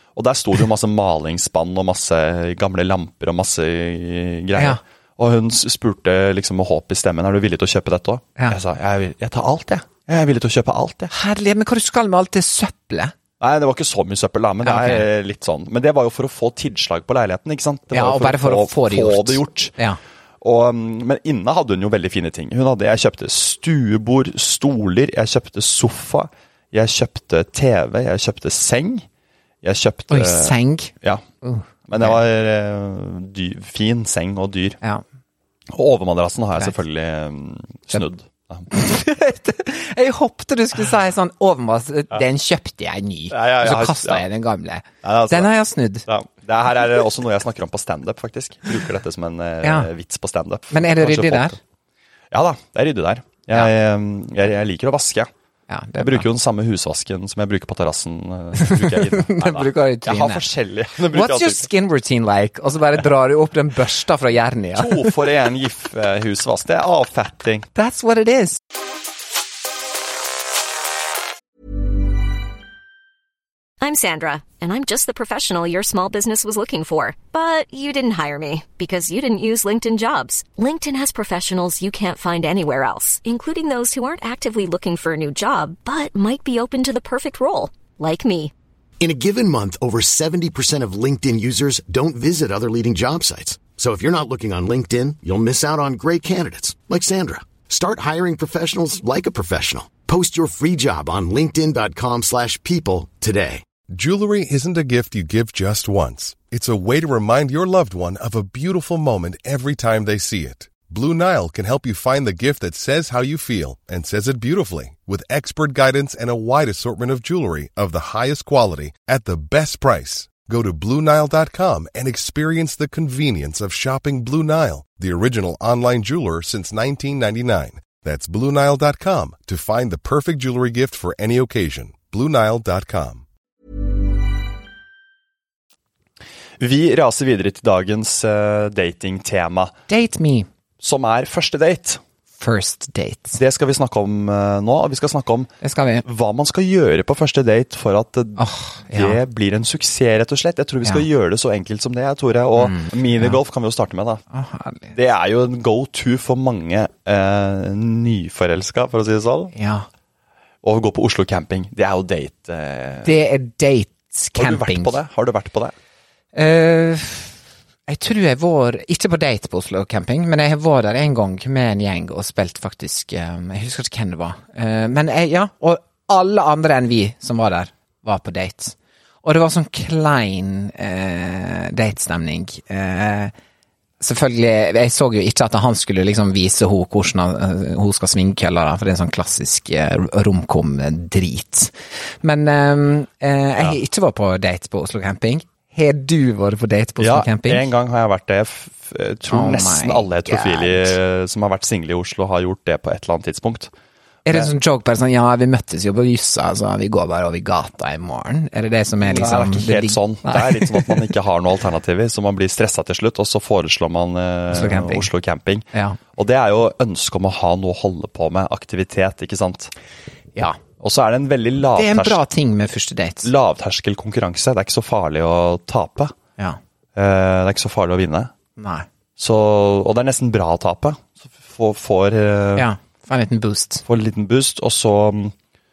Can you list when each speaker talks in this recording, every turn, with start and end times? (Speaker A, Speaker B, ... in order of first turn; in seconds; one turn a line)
Speaker A: 0.1-11.1
Speaker B: 11.1-13.1
Speaker A: 13.4-19.7
Speaker B: 14.6-15.1
Speaker B: 17.9-20.0
Speaker A: 20.4-29.0
Speaker A: 29.6-31.2
Speaker B: 30.1-32.2
Speaker A: 31.9-34.8
Speaker A: 35.7-38.7
Speaker B: 38.7-46.0
Speaker A: 43.3-44.2
Speaker A: 45.0-45.5
Speaker A: 46.1-51.6
Speaker B: 49.6-49.9
Speaker B: 50.7-51.6
Speaker A: 52.3-55.3
Speaker B: 55.7-56.2
Speaker A: 56.0-61.7
Speaker B: 58.6-60.4
Speaker B: 61.1-65.1
Speaker A: 64.7-67.7
Speaker B: 67.7-68.6
Speaker C: 73.8-88.5
Speaker D: 89.0-103.6
Speaker E: 103.9-133.2
Speaker A: 136.6-139.7
Speaker B: 139.9-140.5
Speaker A: 140.8-142.0
Speaker B: 142.4-143.4
Speaker A: 143.4-145.5
Speaker B: 145.6-146.0
Speaker A: 146.0-154.2
Speaker B: 148.4-149.2
Speaker B: 152.6-153.4
Speaker B: 154.3-154.9
Speaker A: 154.9-159.5
Speaker B: 159.5-159.9
Speaker A: 160.6-163.1
Speaker B: 163.0-164.9
Speaker A: 164.3-165.7
Speaker B: 166.3-167.3
Speaker B: 167.9-183.3
Speaker B: 184.0-197.6
Speaker A: 197.0-203.7
Speaker B: 199.3-201.0
Speaker B: 204.2-211.1
Speaker A: 209.0-219.7
Speaker B: 214.5-215.1
Speaker B: 215.7-216.0
Speaker A: 220.8-222.2
Speaker B: 221.7-223.3
Speaker A: 223.2-226.1
Speaker A: 226.9-228.3
Speaker B: 228.6-228.8
Speaker A: 229.2-232.7
Speaker B: 232.6-233.8
Speaker A: 233.8-235.3